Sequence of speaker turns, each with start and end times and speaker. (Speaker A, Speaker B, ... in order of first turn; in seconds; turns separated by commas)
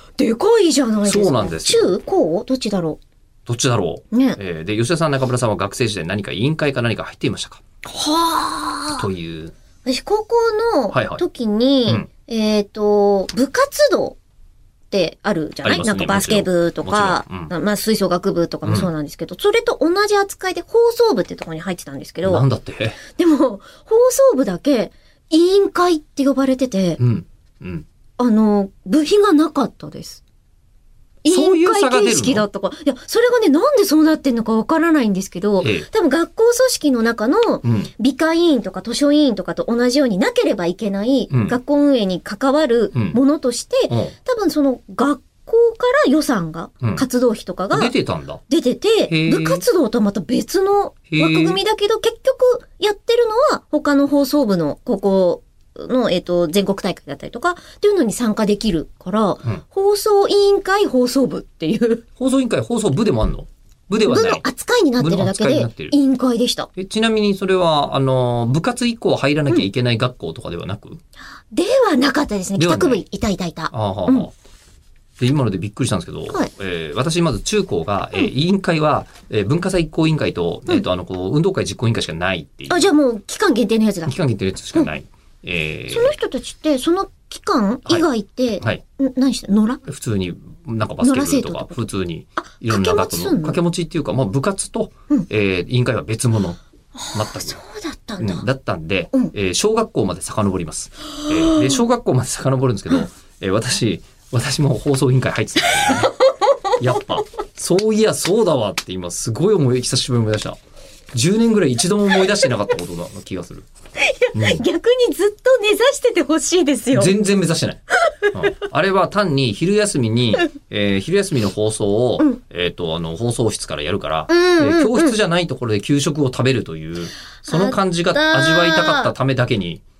Speaker A: 0.2-3.0, Speaker B: 1.0-1.9, Speaker B: 3.5-7.6, Speaker A: 4.1-4.4, Speaker A: 7.8-9.1, Speaker B: 8.9-9.5, Speaker A: 9.8-14.2, Speaker B: 10.9-11.2, Speaker A: 14.9-22.4, Speaker B: 15.6-17.5, Speaker B: 18.6-18.9, Speaker B: 22.2-23.0, Speaker A: 23.1-27.0, Speaker B: 27.0-27.9, Speaker A: 28.2-30.2, Speaker A: 31.2-47.9, Speaker B: 31.3-32.4, Speaker B: 35.6-35.9, Speaker B: 37.6-37.9, Speaker B: 41.3-41.6, Speaker B: 43.9-44.1, Speaker B: 47.7-48.4, Speaker A: 48.5-62.0, Speaker B: 49.1-49.6, Speaker B: 51.1-51.6, Speaker B: 62.2-64.4, Speaker A: 64.0-66.7, Speaker B: 65.0-65.9, Speaker B: 66.7-71.0, Speaker A: 71.5-74.3, Speaker B: 72.6-73.0, Speaker B: 73.7-74.3, Speaker B: 75.2-82.8, Speaker A: 82.7-84.1, Speaker B: 84.0-86.1, Speaker A: 85.9-89.8, Speaker B: 89.8-96.6, Speaker A: 91.0-93.6, Speaker A: 97.0-98.4, Speaker B: 97.1-97.6, Speaker B: 98.2-106.1, Speaker A: 101.3-101.8, Speaker A: 105.8-106.5, Speaker B: 106.8-110.6, Speaker B: 111.1-113.7, Speaker A: 114.0-117.2, Speaker B: 114.3-114.6, Speaker B: 116.9-117.8, Speaker B: 118.3-129.8, Speaker A: 124.3-125.1, Speaker A: 127.4-129.1